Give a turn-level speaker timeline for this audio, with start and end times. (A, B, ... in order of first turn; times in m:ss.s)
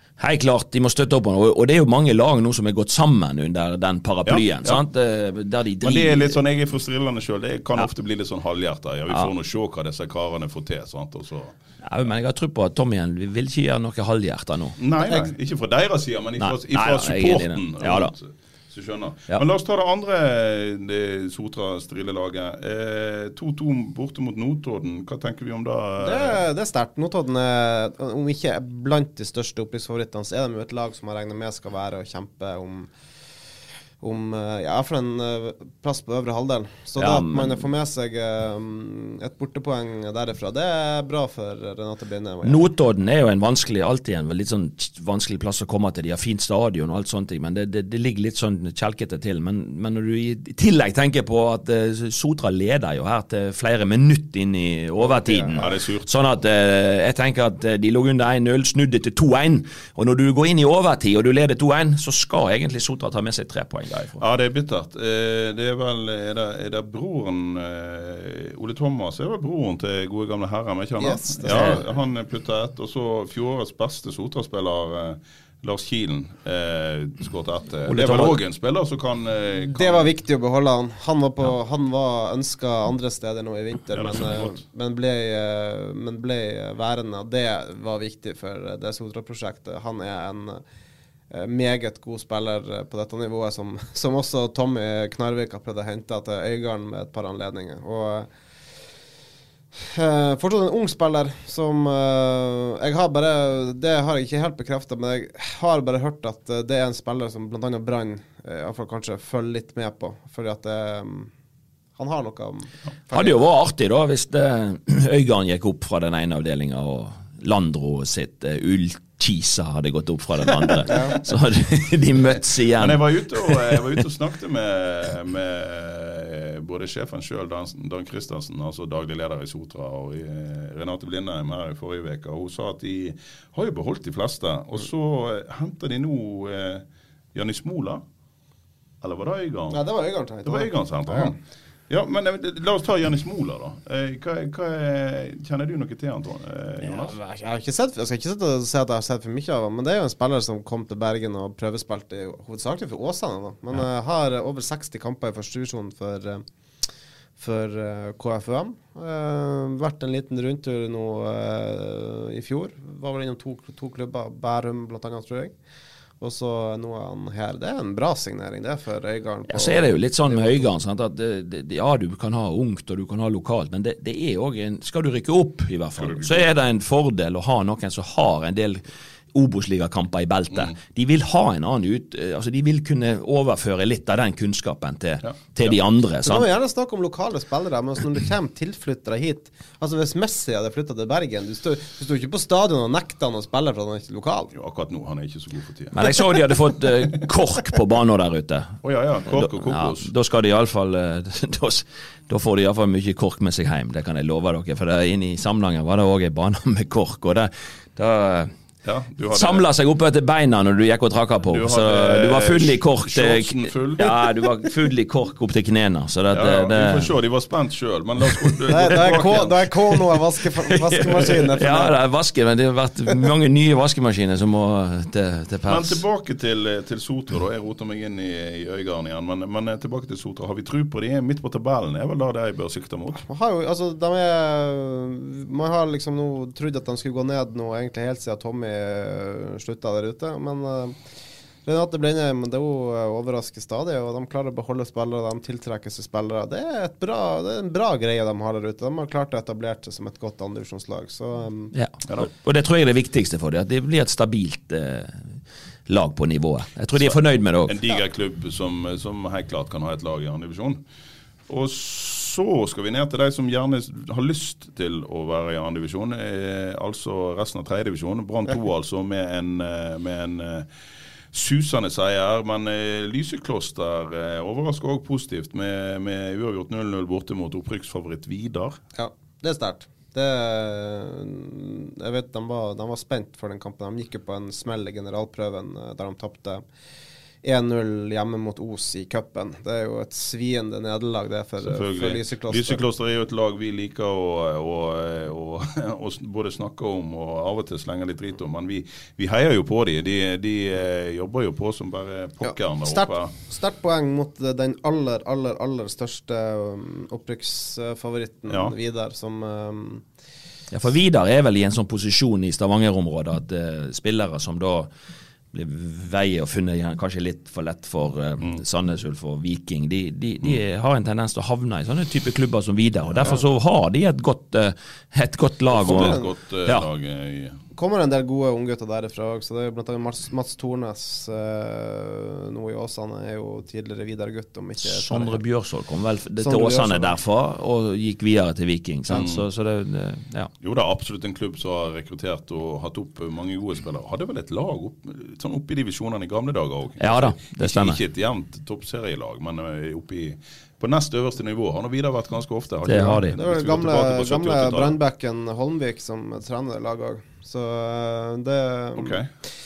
0:00.2-0:06.4 A
0:04.3-0:04.8 B
0:05.8-0:11.5 B
0:11.8-0:14.8 A
0:14.8-0:26.4 B
0:16.4-0:18.1 A
0:26.0-0:32.9 C
0:34.0-0:42.6 C
0:37.0-0:37.6 A
0:42.4-1:04.2 A
0:55.0-0:55.6 C
0:55.6-0:56.1 B
1:04.2-1:20.1 B
1:11.0-1:11.8 C
1:11.5-1:11.8 A
1:17.9-1:18.4 C
1:19.8-1:30.6 C
1:23.9-1:24.6 B
1:31.3-1:38.3 C
1:39.8-1:51.3 C
1:52.0-1:53.3 C
1:53.1-2:04.0 A
2:00.9-2:01.2 C
2:02.2-2:18.0 B
2:19.0-2:19.8 B
2:19.7-2:21.4 C
2:20.4-2:21.4 B
2:21.9-2:27.2 B
2:27.0-2:36.4 C
2:37.4-2:45.5 C
2:46.2-2:50.7 C
2:49.5-3:06.5 A
2:56.0-2:56.5 B
3:05.2-3:05.8 B
3:06.2-3:14.5 C
3:14.5-3:16.0 B
3:15.9-3:18.8 A
3:18.8-3:20.1 B
3:19.3-3:28.5 A
3:28.8-3:29.6 B
3:29.3-3:37.1 A
3:31.5-3:34.2 B
3:36.3-3:39.7 B
3:38.7-3:42.0 C
3:40.7-3:46.0 A
3:45.7-3:53.2 B
3:53.2-4:01.0 C
4:01.6-4:11.7 C
4:11.7-4:15.2 A
4:15.9-4:17.8 A
4:17.0-4:20.8 B
4:21.5-4:30.7 B
4:31.3-4:38.8 B
4:39.0-4:46.6 C
4:47.4-4:52.8 C
4:51.6-5:03.3 B
5:02.4-5:10.0 C
5:08.5-5:08.7 B
5:10.7-5:14.9 A
5:15.5-5:26.9 A
5:23.1-5:23.4 B
5:25.8-5:27.6 B
5:25.8-5:26.3 C
5:27.8-5:35.4 C
5:34.8-5:40.5 A
5:36.4-5:37.2 C
5:39.1-5:39.5 B
5:40.6-5:55.0 B
5:47.0-5:48.0 A
5:52.9-5:53.3 A
5:53.3-5:59.2 C
5:59.0-5:59.3 B